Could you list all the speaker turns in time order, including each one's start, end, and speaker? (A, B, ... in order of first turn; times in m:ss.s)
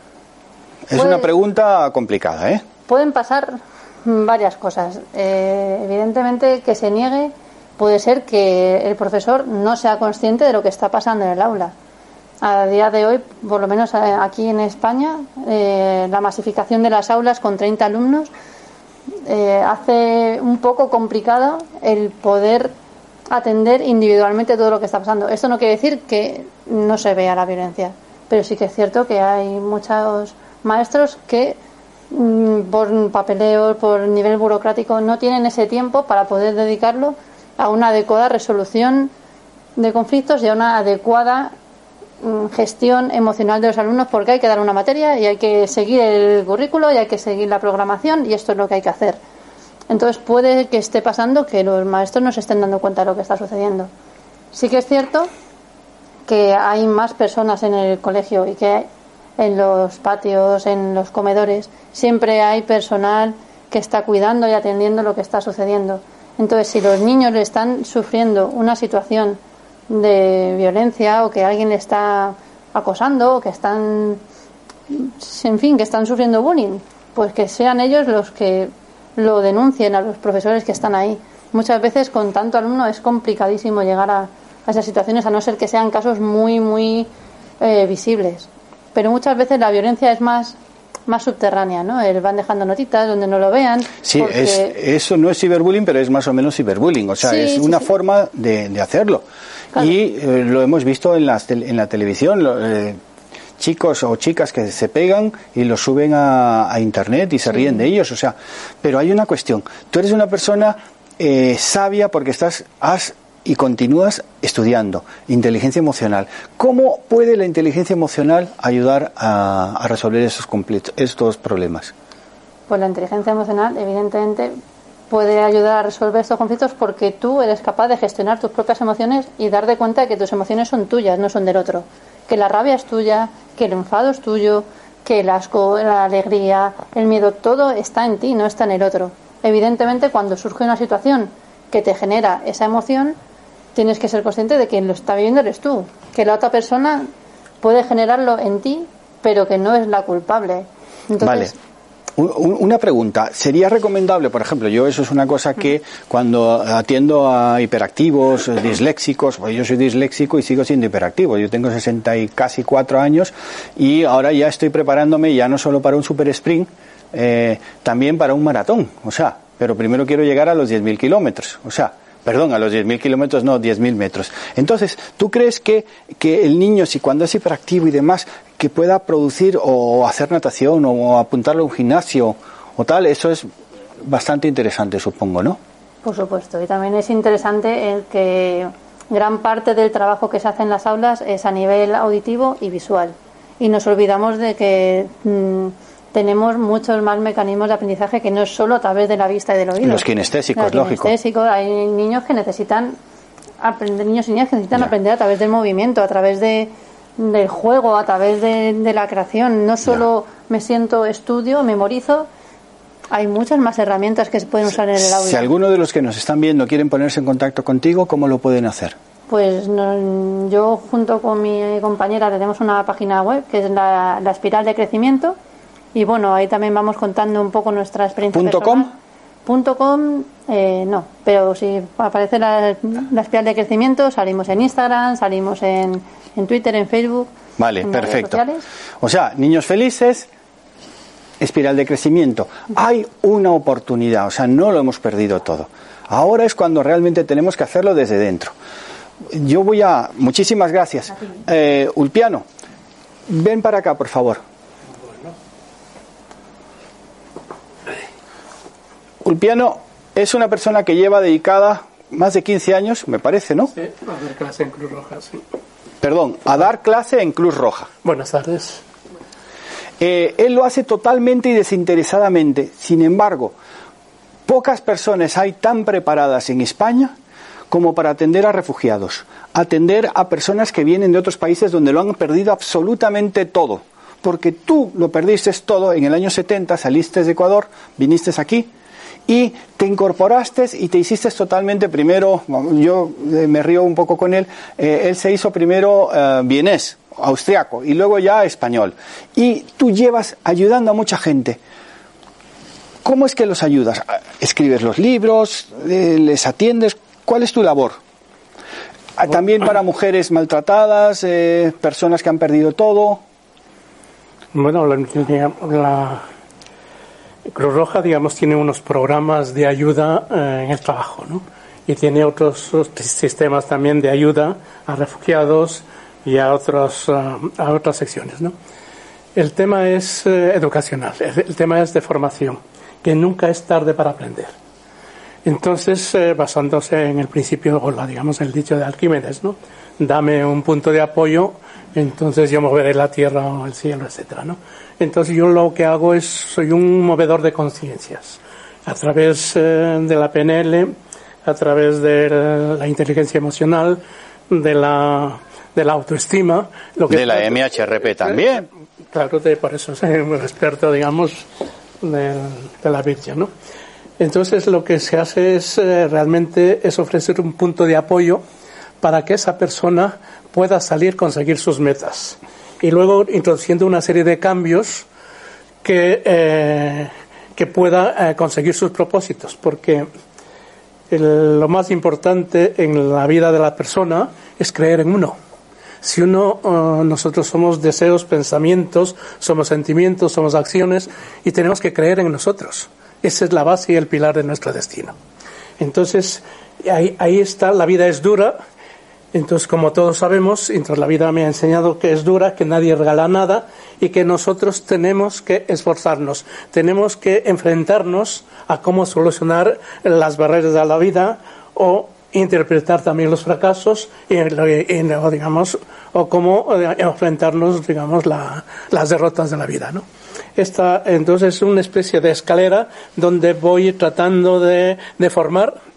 0:00.9-0:02.6 A
0:01.0-0:01.3 B
0:02.9-0:11.7 B
0:12.4-0:18.3 B
0:19.3-0:22.7 B
0:23.3-0:31.6 B
0:32.1-0:39.1 B
0:39.8-0:41.5 B
0:42.2-0:49.2 B
0:49.9-0:53.9 B
0:54.5-0:55.3 B
0:56.3-1:14.2 B
1:14.9-1:27.1 B
1:27.6-1:30.6 B
1:31.1-1:34.8 B
1:34.0-1:39.2 A
1:37.2-1:37.9 B
1:39.8-1:43.0 A
1:43.6-2:01.9 A
2:02.7-2:04.6 B
2:05.1-2:23.2 B
2:23.8-2:27.1 B
2:27.6-2:31.5 B
2:31.2-2:31.5 A
2:32.2-3:03.5 A
3:04.0-3:05.6 A
3:06.0-3:23.0 B
3:19.8-3:21.1 A
3:23.6-3:32.3 B
3:33.1-3:35.5 B
3:34.7-3:39.0 A
3:39.3-3:45.4 B
3:45.9-3:48.9 B
3:48.3-3:48.9 A
3:49.4-3:57.3 B
3:57.6-3:58.4 A
3:57.8-3:58.6 B
3:59.0-4:00.3 A
4:01.4-4:08.5 A
4:09.3-4:12.4 A
4:13.3-4:14.4 A
4:15.1-4:15.4 C
4:19.2-4:23.7 A
4:23.7-4:25.4 C
4:26.0-4:27.9 A
4:28.0-4:28.8 C
4:30.0-4:33.6 A
4:34.5-4:37.1 A
4:37.7-4:48.7 A
4:49.3-5:01.6 A
5:03.0-5:08.0 A
5:09.2-5:13.2 A
5:14.5-5:16.3 C
5:17.5-5:28.6 C
5:29.4-5:34.5 C
5:35.4-5:58.4 C
5:57.1-5:58.7 A
5:59.1-6:01.5 C
6:02.0-6:03.5 C
6:04.2-6:08.4 C
6:09.0-6:15.1 C
6:15.8-6:20.1 C
6:21.1-6:25.4 C
6:26.0-6:35.2 C
6:35.8-6:38.6 C
6:39.3-7:00.0 C
7:00.6-7:05.8 C